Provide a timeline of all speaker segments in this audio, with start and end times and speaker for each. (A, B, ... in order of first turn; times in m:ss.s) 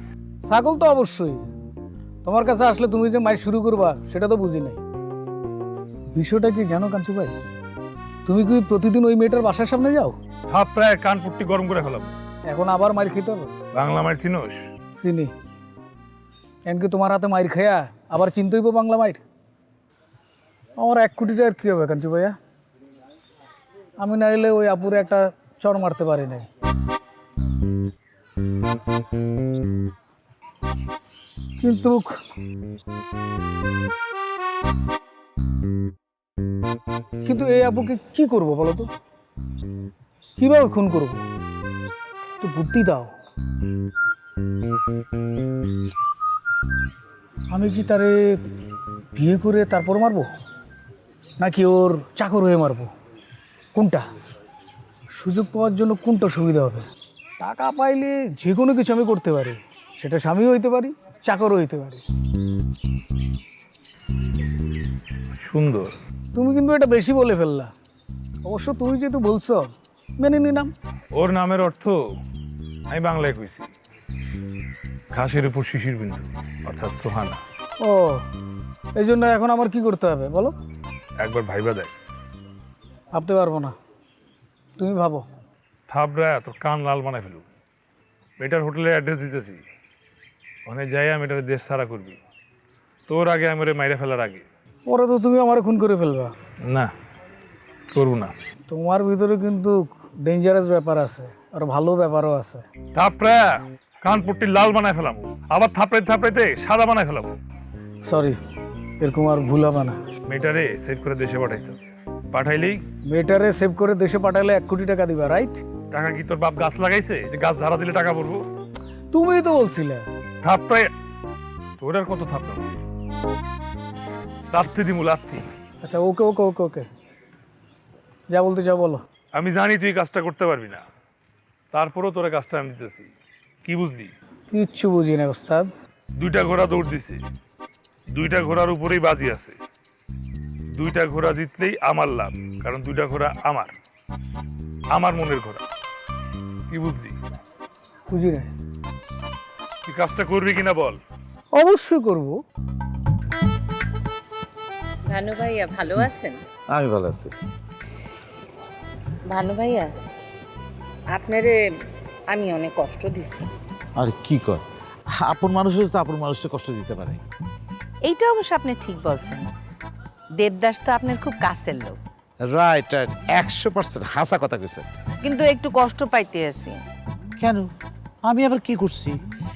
0:00.4-0:01.4 A
0:02.2-0:04.8 A
0:06.1-0:07.3 A
0:08.3-0:10.2 A
0:10.5-0:12.1 B
0:12.4-0:13.5 A
0:13.7-0:14.6 B
0:15.0-0:15.3 A
0:16.6-0:19.2 A
0:20.8-0:22.4 A
0:24.0-0:26.5 A
0:31.6-0:32.2 A
0:37.2-0:38.9 A
0:40.4-0:41.2 A
0:42.4-0:43.2 A
0:47.5-0:48.4 A
0:49.2-0:50.3 A
0:51.4-0:52.9 A
0:53.7-0:54.1 A
0:55.2-0:56.8 A
0:57.4-1:02.0 A
1:05.4-1:05.9 B
1:06.3-1:07.7 A
1:08.4-1:10.7 A
1:11.2-1:12.0 B
1:12.9-1:13.7 B
1:15.1-1:17.4 B
1:17.8-1:18.2 A
1:19.0-1:20.5 A
1:21.2-1:21.9 B
1:23.1-1:23.8 A
1:24.8-1:25.3 A
1:25.9-1:27.4 B
1:28.4-1:29.6 B
1:30.7-1:32.2 B
1:33.1-1:34.4 B
1:34.9-1:36.3 A
1:37.9-1:38.3 B
1:38.7-1:42.6 A
1:43.0-1:47.3 B
1:48.0-1:48.4 A
1:49.0-1:50.0 A
1:50.3-1:51.8 B
1:52.3-1:52.8 B
1:53.1-1:55.6 A
1:55.9-1:58.4 B
1:59.1-2:00.1 A
2:00.4-2:00.9 B
2:01.8-2:02.7 B
2:04.5-2:05.4 B
2:05.8-2:06.9 A
2:08.3-2:09.0 A
2:09.4-2:10.8 B
2:11.7-2:13.1 B
2:13.6-2:14.1 B
2:14.5-2:15.7 A
2:16.2-2:17.2 B
2:18.1-2:19.6 B
2:20.8-2:23.7 B
2:24.9-2:25.6 B
2:26.7-2:27.1 B
2:28.1-2:28.5 A
2:29.9-2:31.0 B
2:31.5-2:32.4 A
2:35.1-2:36.4 C
2:36.7-2:37.3 D
2:39.3-2:39.9 C
2:41.1-2:41.6 C
2:42.3-2:43.5 C
2:44.0-2:44.6 D
2:45.2-2:47.2 D
2:48.0-2:49.5 C
2:50.4-2:52.0 C
2:52.5-2:54.9 D
2:55.2-2:56.8 C
2:57.4-2:57.7 D
2:58.2-2:59.2 D